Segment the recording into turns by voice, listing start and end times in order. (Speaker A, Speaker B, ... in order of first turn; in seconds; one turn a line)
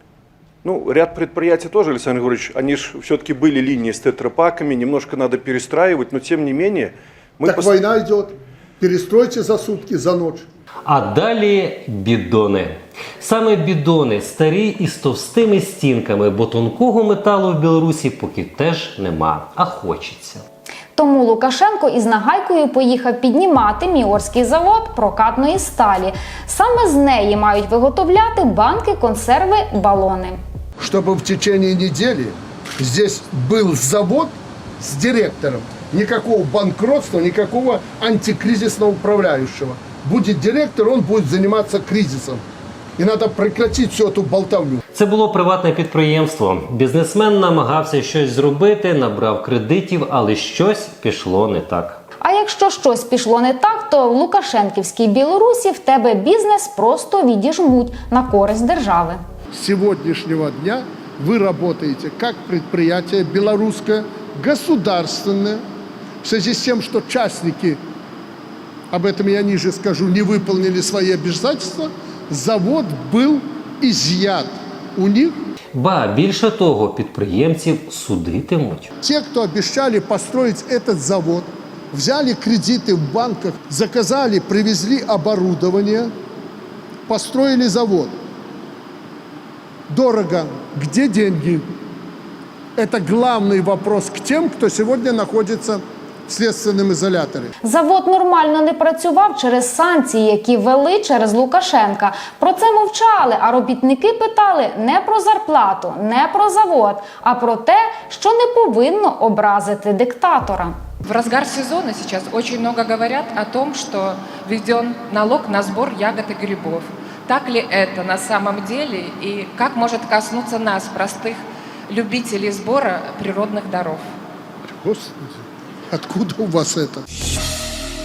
Speaker A: 0.6-6.9
Speaker B: 7.4-10.5
Speaker C: 10.9-20.4
Speaker D: 21.0-30.4
Speaker B: 30.8-42.4
Speaker B: 43.0-44.8
Speaker C: 44.9-52.0
Speaker D: 52.2-59.2
Speaker B: 59.5-65.6
Speaker B: 66.2-67.8
Speaker B: 68.9-75.4
Speaker C: 75.8-78.9
Speaker B: 79.0-86.1
Speaker B: 87.1-88.2
Speaker B: 89.9-91.6
Speaker B: 92.8-97.5
Speaker D: 97.6-110.8
Speaker E: 111.0-124.1
Speaker B: 124.7-127.0